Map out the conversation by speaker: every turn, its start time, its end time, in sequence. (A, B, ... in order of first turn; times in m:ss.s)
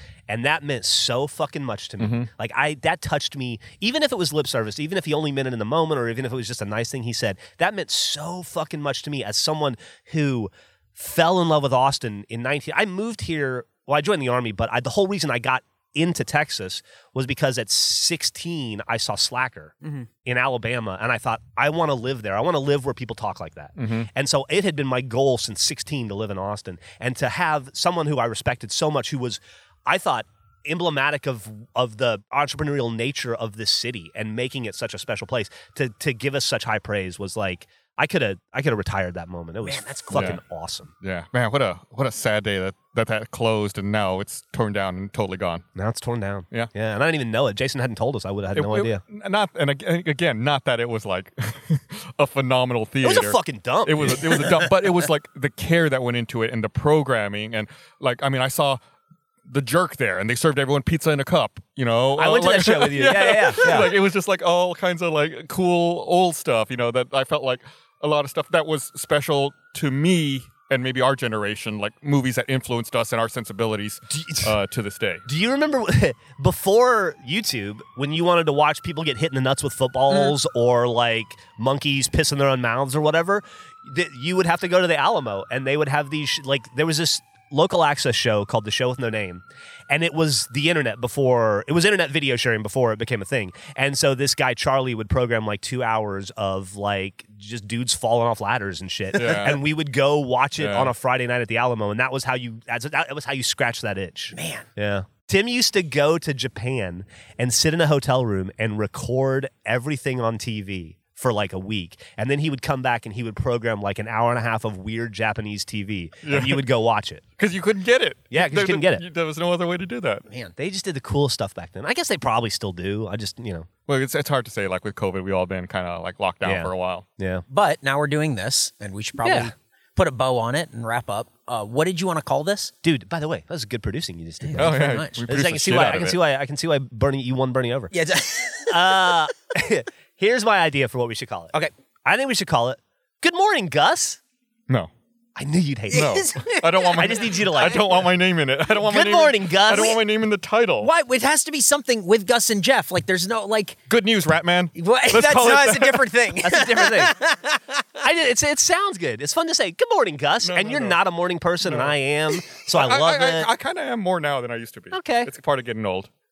0:00.3-0:40.9 A
0:02.0-0:02.3 B
0:23.8-0:24.1 B
0:39.6-0:40.3 C
0:40.1-0:40.4 B
0:41.0-0:45.6 B
0:45.7-0:49.0 A
0:48.5-0:58.8 B
0:53.0-0:55.0 A
0:59.5-1:15.2 B
1:02.2-1:03.9 A
1:14.1-1:14.5 A
1:15.2-1:57.2 A
1:39.1-1:39.6 B
1:40.6-1:40.9 B
1:44.3-1:44.6 C
1:56.2-1:56.6 B
1:57.4-2:00.2 B
1:58.3-1:59.0 A
2:00.6-2:03.7 A
2:03.9-2:07.0 B
2:06.4-2:07.4 A
2:07.5-2:12.7 C
2:09.2-2:09.5 A
2:12.8-2:17.9 A
2:14.4-2:15.2 C
2:14.6-2:16.2 B
2:17.9-2:19.2 C
2:18.7-2:21.5 A
2:22.0-2:24.2 A
2:25.4-2:26.2 A
2:25.9-2:27.9 C
2:25.9-2:30.9 B
2:26.9-2:27.9 A
2:28.8-2:30.0 A
2:30.8-2:33.8 C
2:33.9-2:36.1 B
2:34.8-2:37.8 C
2:36.4-2:37.2 A
2:38.0-2:43.5 A
2:40.4-2:41.0 B
2:41.6-2:41.9 B
2:42.6-2:46.1 B
2:44.9-2:45.3 A